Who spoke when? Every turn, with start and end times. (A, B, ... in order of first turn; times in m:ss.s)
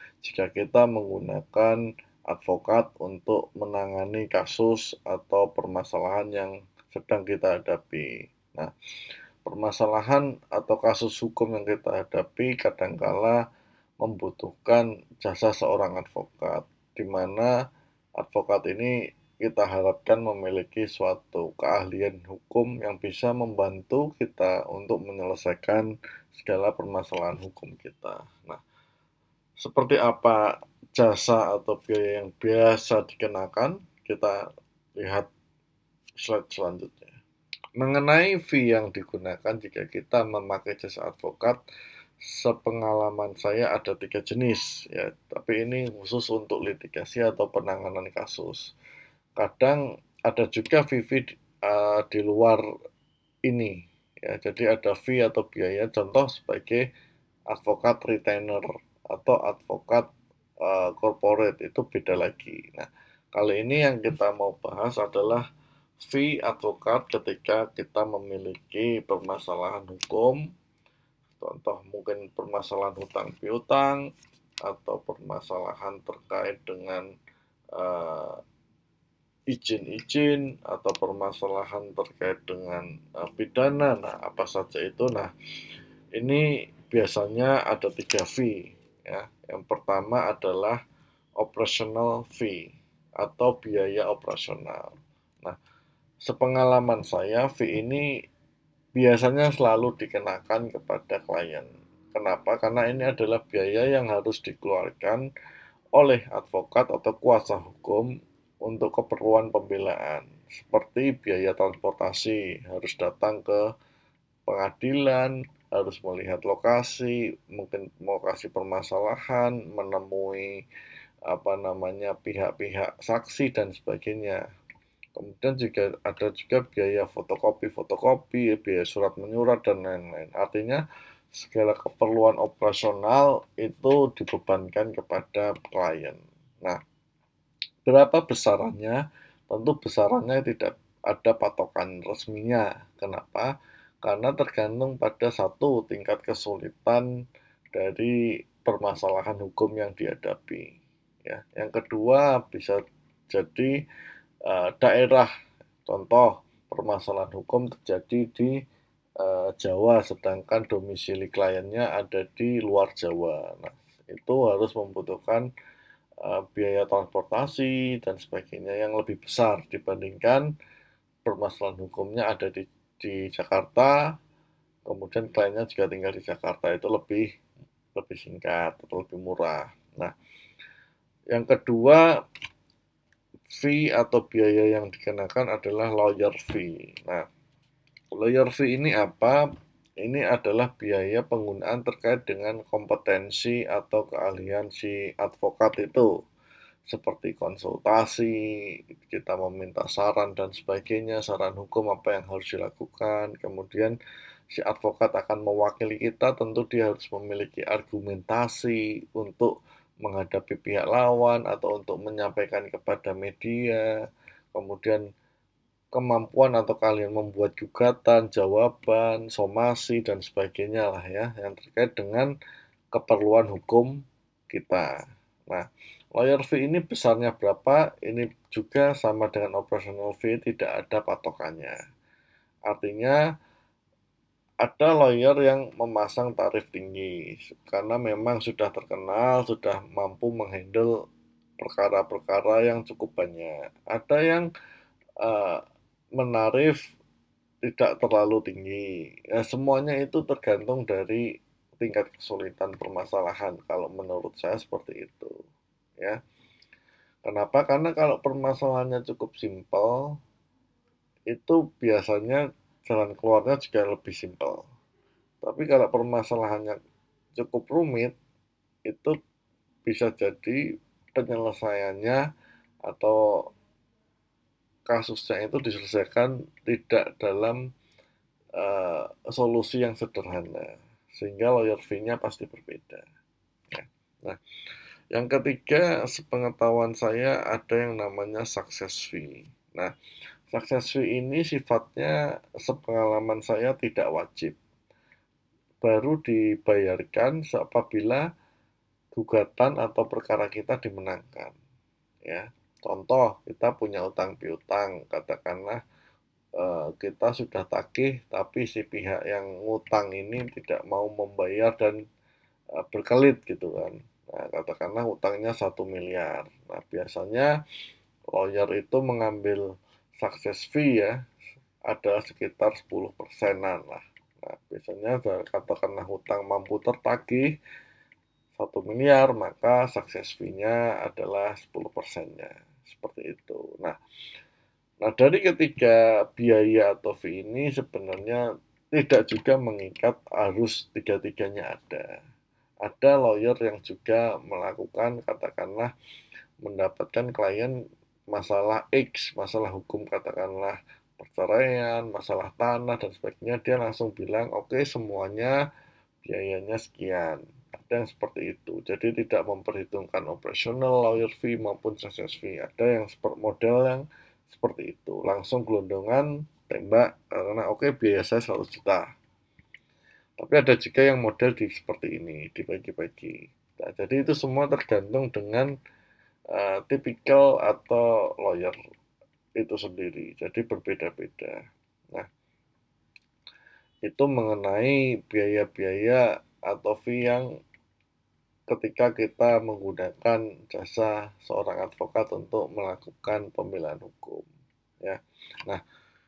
0:00.2-0:08.7 A
0:09.4-0:13.4 A
0:14.0-0:17.5 A
0:18.2-0:28.6 A
0:29.6-0:34.4 A
0:35.0-0:35.3 A
0:36.2-0:37.2 A
0:37.8-0:41.6 A
0:42.3-0:48.7 A
0:49.4-0:52.6 A
0:53.5-0:56.8 A
0:57.5-1:00.1 A
1:00.6-1:05.4 A
1:06.0-1:10.4 A
1:11.4-1:14.0 A
1:14.6-1:17.1 A
1:17.7-1:18.4 A
1:19.5-1:25.3 A
1:26.2-1:30.8 A
1:31.4-1:35.6 A
1:36.3-1:38.0 A
1:39.0-1:45.2 A
1:46.0-1:48.1 A
1:48.7-1:53.6 A
1:54.5-2:00.6 A
2:01.3-2:04.4 A
2:05.2-2:10.8 A
2:11.4-2:16.8 A
2:17.9-2:23.5 A
2:24.0-2:27.1 A
2:27.7-2:30.7 A
2:31.3-2:33.8 A
2:34.5-2:35.3 A
2:35.9-2:38.6 A
2:39.2-2:45.5 A
2:46.2-2:50.5 A
2:51.2-2:54.0 A
2:54.9-2:57.3 A
2:58.0-3:00.1 A
3:01.3-3:02.0 A
3:03.5-3:07.2 A
3:08.1-3:09.4 A
3:10.0-3:16.1 A
3:16.9-3:18.5 A
3:19.0-3:24.0 A
3:24.5-3:33.9 A
3:34.6-3:35.0 A
3:35.9-3:42.3 A
3:42.9-3:43.9 A
3:44.5-3:44.9 A
3:45.5-3:51.8 A
3:52.7-3:53.2 A
3:54.6-4:00.9 A
4:01.6-4:04.5 A
4:05.2-4:05.6 A
4:06.2-4:06.8 A
4:07.7-4:11.2 A
4:11.8-4:15.3 A
4:17.2-4:20.1 A
4:21.3-4:24.6 A
4:25.4-4:26.8 A
4:27.4-4:28.2 A
4:28.9-4:29.2 A
4:29.9-4:30.6 A
4:31.1-4:32.2 A
4:32.9-4:33.2 A
4:34.9-4:37.6 A
4:38.6-4:43.0 A
4:43.7-4:44.4 A
4:45.1-4:49.9 A
4:50.5-4:54.6 A
4:55.8-4:58.2 A
4:59.2-5:01.6 A
5:02.3-5:05.8 A
5:06.6-5:12.0 A
5:12.8-5:17.5 A
5:18.3-5:19.6 A
5:20.2-5:21.1 A
5:21.9-5:27.5 A
5:28.6-5:34.0 A
5:35.0-5:38.4 A
5:39.0-5:42.1 A
5:42.8-5:45.9 A
5:46.6-5:47.8 A
5:48.3-5:55.6 A
5:56.2-6:09.1 A
6:10.4-6:15.7 A
6:16.5-6:18.8 A
6:19.6-6:21.6 A
6:24.0-6:27.5 A
6:28.7-6:34.5 A
6:35.0-6:35.8 A